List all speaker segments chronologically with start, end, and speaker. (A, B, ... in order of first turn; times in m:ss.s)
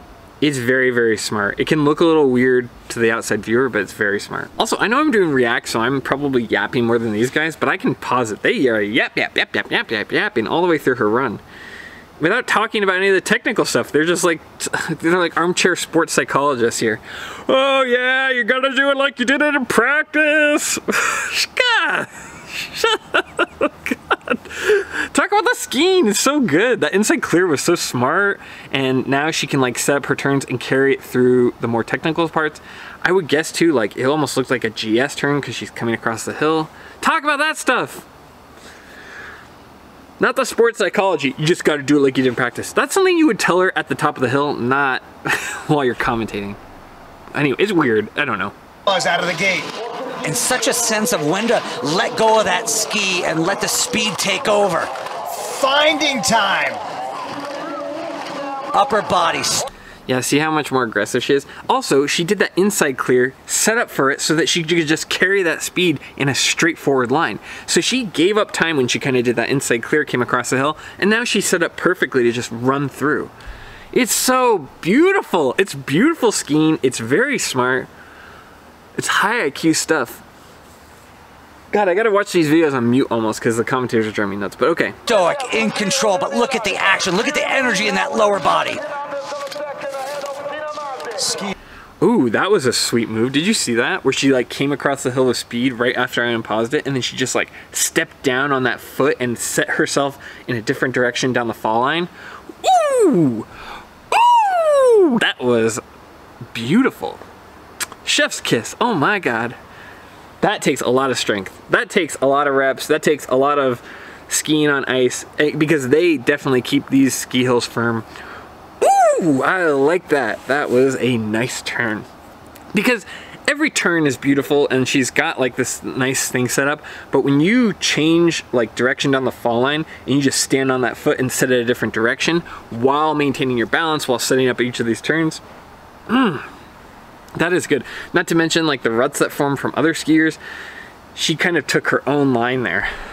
0:00.4-0:11.4 A
0:12.2-0:38.1 A
0:40.2-0:46.6 A
0:47.3-0:48.5 A
0:48.9-0:49.7 B
0:50.2-0:54.9 C
0:55.3-0:56.8 B
0:58.7-0:59.7 C
1:00.1-1:13.3 A
1:13.9-1:17.9 A
1:19.0-1:20.2 A
1:21.7-1:25.0 A
1:25.1-1:28.8 C
1:31.2-1:31.6 B
1:32.0-1:42.1 A
1:42.6-1:43.5 A
1:44.1-1:45.8 A
1:46.5-1:47.2 A
1:48.0-1:49.6 A
1:50.4-1:58.1 A
1:58.8-2:02.1 A
2:02.7-2:15.4 A
2:16.1-2:16.5 A
2:17.4-2:20.4 A
2:21.2-2:22.9 A